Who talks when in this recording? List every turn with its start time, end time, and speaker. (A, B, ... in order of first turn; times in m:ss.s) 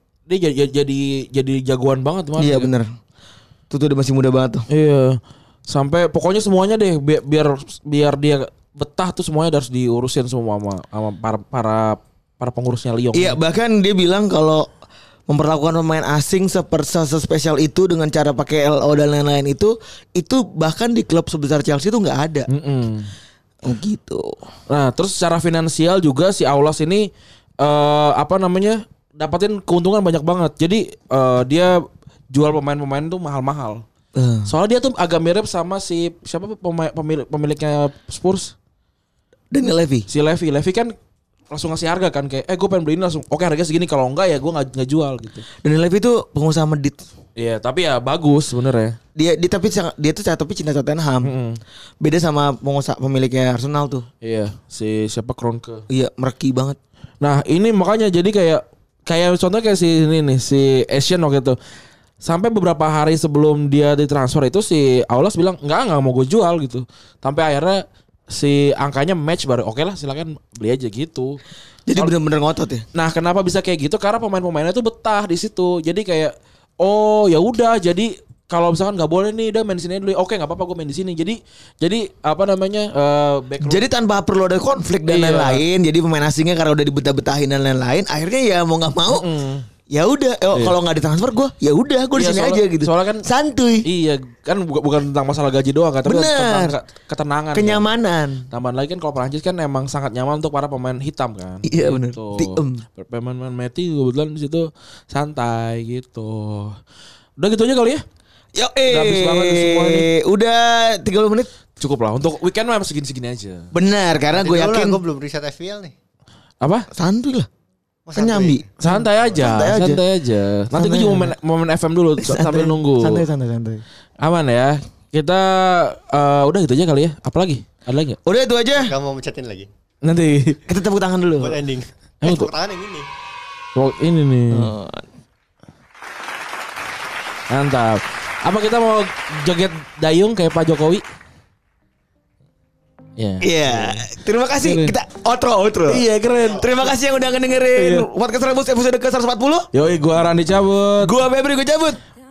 0:00.3-0:02.7 A
0:02.4-0:02.9 B
0:03.7-0:04.7 B
0:04.7-0:13.4 A
0:13.1-0:14.7 B
0:15.3-0:22.5 B
0:22.5-0:23.1 A
0:23.6-0:24.4 B
0:24.7-0:27.1 A
0:27.6-0:33.8 A
0:34.2-0:34.5 B
0:34.5-0:38.6 A
0:39.5-0:40.1 B
0:40.1-0:40.9 A
0:41.5-0:45.4 A
0:45.6-0:47.0 B
0:47.4-0:49.0 A
0:49.2-0:51.3 B
0:51.2-0:51.6 A
0:52.0-0:54.1 B
0:54.2-0:55.8 A
0:55.9-0:56.8 B
0:57.2-1:01.6 A
1:02.2-1:11.4 A
1:11.9-1:12.8 B
1:12.9-1:23.8 A
1:23.6-1:29.3 B
1:25.1-1:25.6 A
1:29.1-1:29.7 A
1:29.9-1:33.9 B
1:32.2-1:33.3 A
1:33.8-1:37.9 A
1:36.0-1:36.8 B
1:37.5-1:38.5 B
1:38.5-1:46.8 A
1:41.6-1:42.8 B
1:47.4-1:48.0 A
1:48.5-1:51.5 B
1:48.9-1:50.1 A
1:51.8-1:53.7 A
1:53.7-1:55.0 B
1:54.3-1:55.9 C
1:56.6-1:56.9 A
1:56.9-1:57.5 B
1:58.1-1:58.7 C
1:58.2-2:00.0 B
1:58.8-2:03.3 A
2:00.7-2:01.3 B
2:02.2-2:03.8 B
2:04.2-2:08.2 A
2:08.2-2:08.9 B
2:08.8-2:09.7 C
2:10.0-2:10.6 A
2:10.7-2:11.6 B
2:11.4-2:13.1 C
2:12.2-2:12.5 A
2:13.8-2:14.7 A
2:14.5-2:15.1 B
2:17.5-2:21.0 A
2:23.2-2:24.1 A
2:23.4-2:29.7 B
2:24.6-2:25.0 A
2:25.9-2:26.9 A
2:27.8-2:28.1 A
2:29.7-2:31.1 A
2:31.0-2:32.0 B